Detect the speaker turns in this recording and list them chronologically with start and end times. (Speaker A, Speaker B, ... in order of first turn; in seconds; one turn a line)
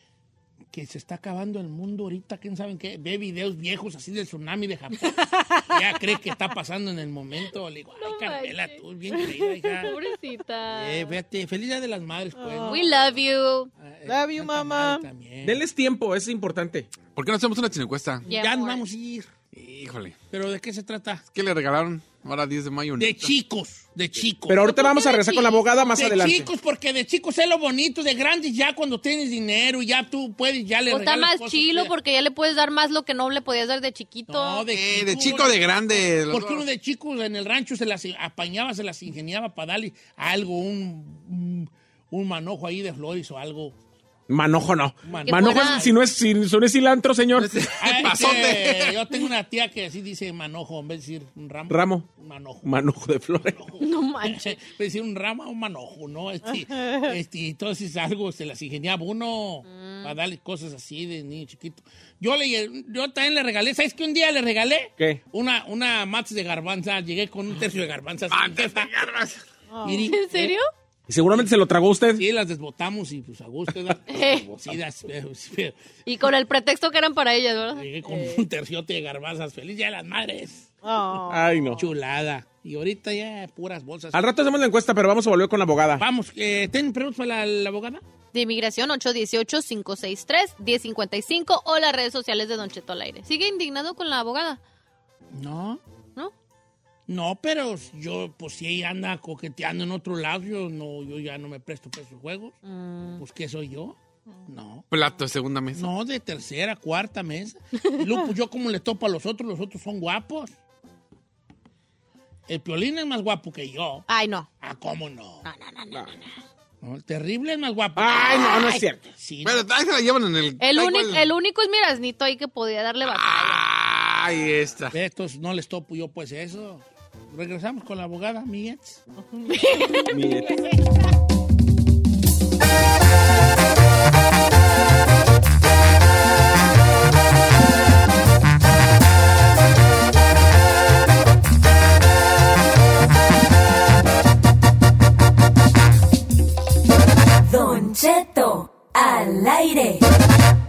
Speaker A: 0.7-9.9
Speaker B: 8.0-8.8
Speaker C: 9.2-10.0
Speaker B: 9.8-11.2
Speaker A: 10.7-12.8
Speaker C: 12.4-12.9
Speaker B: 12.7-13.7
Speaker A: 13.8-15.6
Speaker C: 14.1-15.1
Speaker D: 15.4-16.9
Speaker E: 17.1-18.2
Speaker B: 18.3-18.8
Speaker A: 18.3-19.3
Speaker E: 19.6-20.1
Speaker A: 20.3-21.2
Speaker E: 21.3-23.3
Speaker A: 23.0-24.6
Speaker D: 24.5-26.5
Speaker B: 24.7-25.7
Speaker A: 25.9-31.9
Speaker B: 30.9-34.7
Speaker A: 34.3-43.8
Speaker E: 34.7-36.7
Speaker D: 44.3-47.5
Speaker A: 45.0-46.0
Speaker B: 45.2-45.8
Speaker E: 47.4-48.9
Speaker A: 47.8-52.7
Speaker D: 51.7-52.1
Speaker D: 52.6-53.6
Speaker A: 53.4-68.9
Speaker B: 53.8-54.5
Speaker C: 56.5-57.1
Speaker B: 59.7-60.1
Speaker E: 68.3-69.4
Speaker C: 69.7-70.2
Speaker A: 69.8-70.5
Speaker B: 70.0-70.7
Speaker D: 71.1-72.2
Speaker A: 72.2-75.8
Speaker B: 74.1-74.5
Speaker B: 76.1-78.4
Speaker A: 77.7-80.7
Speaker C: 80.8-81.8
Speaker D: 81.3-81.8
Speaker A: 81.8-84.3
Speaker D: 84.1-86.0
Speaker A: 86.0-88.0
Speaker B: 88.3-94.6
Speaker A: 95.3-95.8
Speaker A: 97.1-102.6
Speaker B: 102.6-103.2
Speaker A: 103.2-104.9
Speaker E: 104.9-105.9
Speaker A: 105.8-110.5
Speaker A: 112.5-114.0
Speaker B: 114.1-114.5
Speaker A: 114.6-115.5
Speaker B: 115.5-116.3
Speaker A: 116.8-119.7
Speaker D: 118.0-119.1
Speaker B: 118.2-118.8
Speaker E: 119.4-121.3
Speaker B: 120.6-123.7
Speaker E: 123.0-125.0
Speaker A: 124.9-129.0
Speaker C: 129.3-129.9
Speaker B: 129.5-130.1
Speaker D: 130.1-130.5
Speaker A: 130.2-130.8
Speaker F: 147.4-150.0